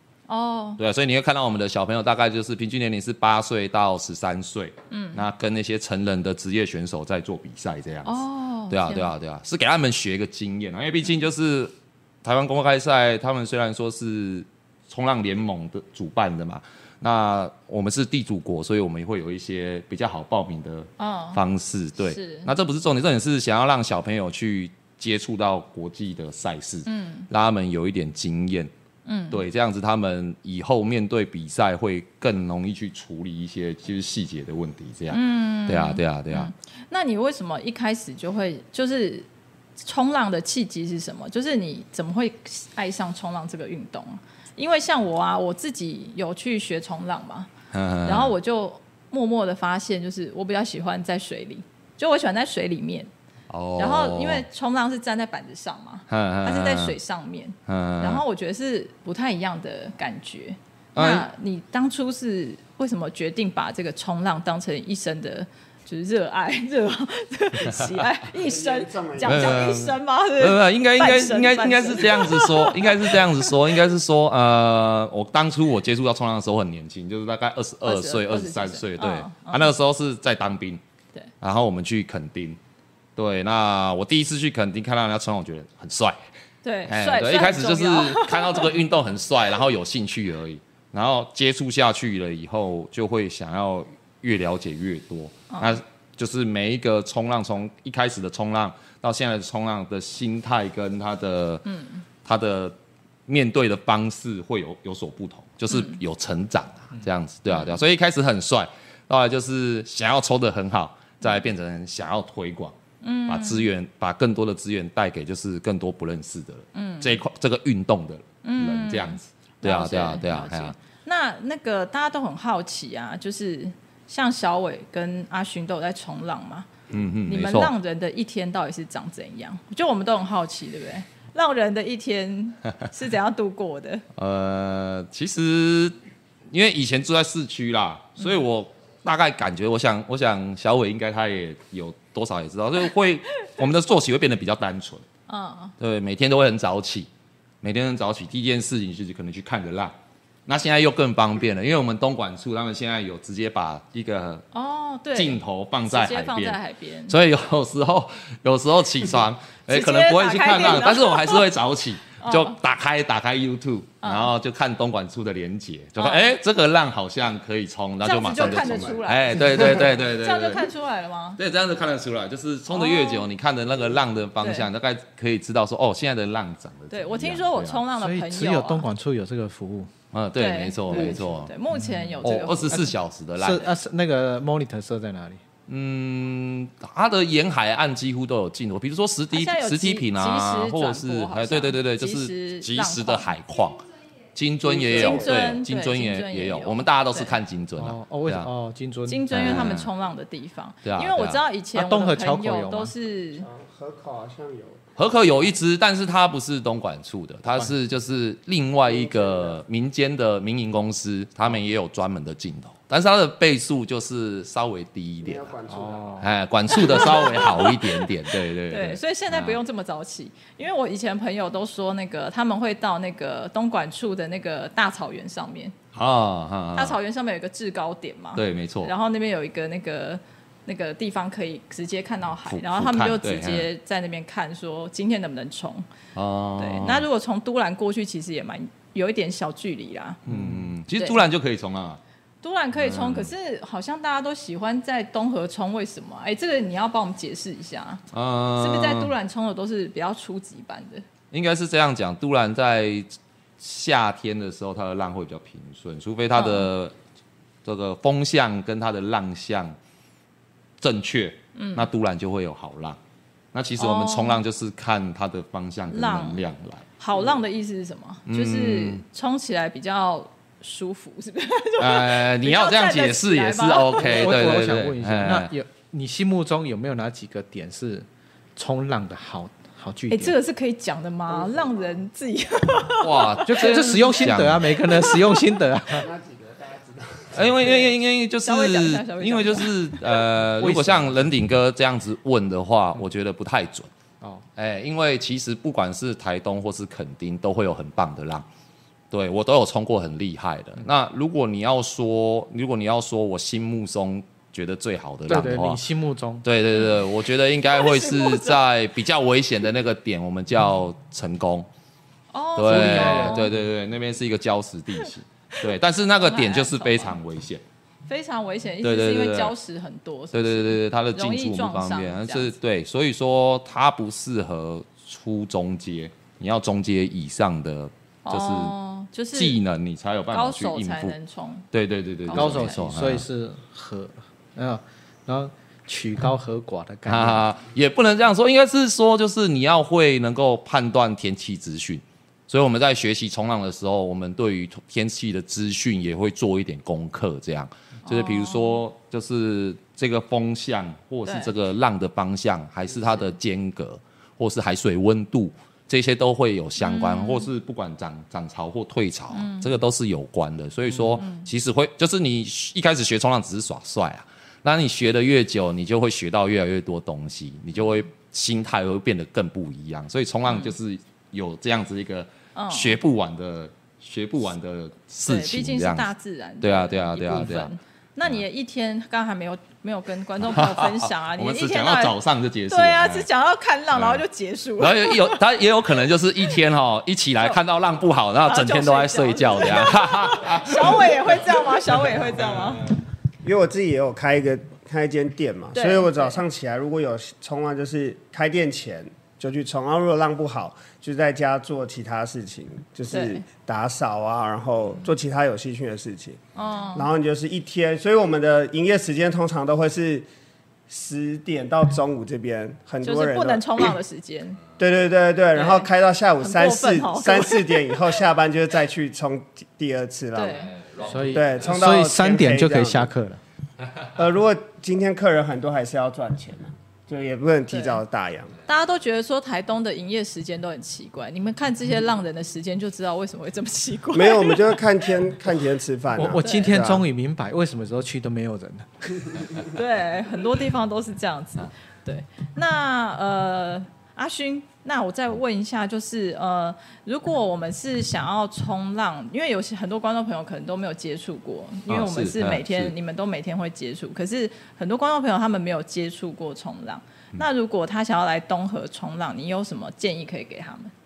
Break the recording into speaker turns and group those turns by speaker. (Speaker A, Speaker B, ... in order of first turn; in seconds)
Speaker A: 0.3-0.8, 4.9-5.2, 8.1-9.1, 21.0-21.4, 22.0-22.5, 26.9-27.3, 29.1-29.4, 35.1-39.3, 39.8-47.5, 48.0-53.1, 53.8-73.6, 77.8-79.7, 86.6-88.7, 95.5-95.8, 101.7-102.0, 105.7-106.0, 107.5-107.8, 113.0-113.7, 116.8-117.2, 118.4-126.7, 127.2-134.0, 145.3-145.7, 154.5-157.2, 159.7-161.4, 162.2-162.6, 164.0-164.3, 166.0-166.3, 168.0-171.4, 172.7-173.2, 174.4-174.7, 176.9-178.9, 180.4-182.9, 189.3-193.3, 194.9-197.3, 199.1-203.5, 216.7-218.1, 218.7-225.8, 226.8-235.8, 236.6-240.2, 241.0-241.2, 242.4-248.0, 248.6-251.1, 256.3-256.7, 261.6-261.9, 263.8-264.4, 265.9-266.4, 267.0-274.3, 280.1-284.2, 284.8-285.4, 287.6-290.0, 307.7-308.6, 312.3-313.5, 316.2-317.2, 318.1-322.5, 328.3-329.6, 330.3-331.7, 332.3-332.9, 348.1-348.8, 351.3-351.5, 356.8-357.5, 359.3-359.7, 361.2-361.5, 370.5-370.8, 372.6-373.0, 375.3-382.2, 382.7-385.4, 388.4-392.9, 395.7-396.4, 403.1-403.4, 406.6-407.1, 413.0-414.6, 415.5-415.9, 416.4-418.1, 420.4-420.8, 427.7-428.0, 428.7-434.8, 436.4-436.8, 439.7-460.9
Speaker B: 0.8-8.2, 8.7-11.7, 12.2-28.7, 29.3-36.5, 47.7-48.3, 53.5-54.4, 56.1-57.0, 57.7-58.2, 61.0-61.3, 69.2-80.8, 81.4-82.6, 83.2-86.2, 86.9-101.7, 102.2-102.8, 103.3-112.8, 113.3-120.7, 126.9-127.7, 134.2-136.0, 136.5-145.1, 145.8-147.1, 147.6-149.9, 150.5-154.5, 155.1-170.7, 171.4-177.8, 180.1-181.5, 182.2-183.7, 185.7-198.5, 199.3-199.9, 200.8-201.4, 205.0-215.5, 216.2-219.6, 225.9-227.0, 228.4-228.9, 232.5-233.7, 236.2-237.1, 240.3-242.0, 242.8-243.3, 248.1-249.1, 251.3-256.9, 257.6-259.8, 260.8-263.0, 263.5-266.9, 268.3-269.0, 271.8-275.5, 283.0-284.7, 287.3-293.9, 294.6-298.5, 299.1-305.8, 306.4-311.7, 312.6-317.6, 318.8-319.5, 320.3-328.7, 329.3-331.1, 331.7-333.2, 337.1-376.1, 376.6-377.7, 380.4-383.3, 383.9-384.2, 384.8-391.5, 420.8-421.4, 451.9-452.9
Speaker C: 68.4-69.7, 168.4-169.0, 194.6-195.4, 203.4-204.8, 208.9-209.6, 215.2-216.2, 281.3-281.9, 285.9-287.4, 393.4-406.4, 406.9-410.3, 410.9-413.9, 414.8-420.7, 421.2-423.1, 424.1-428.6, 434.1-437.1
Speaker D: 178.0-179.9, 183.4-185.4, 197.8-199.8, 201.8-202.9, 215.7-216.3, 240.3-240.6, 274.0-280.4, 283.5-286.1, 290.6-291.3, 305.3-306.4, 312.7-313.5, 332.3-337.4, 421.1-423.4, 436.1-439.4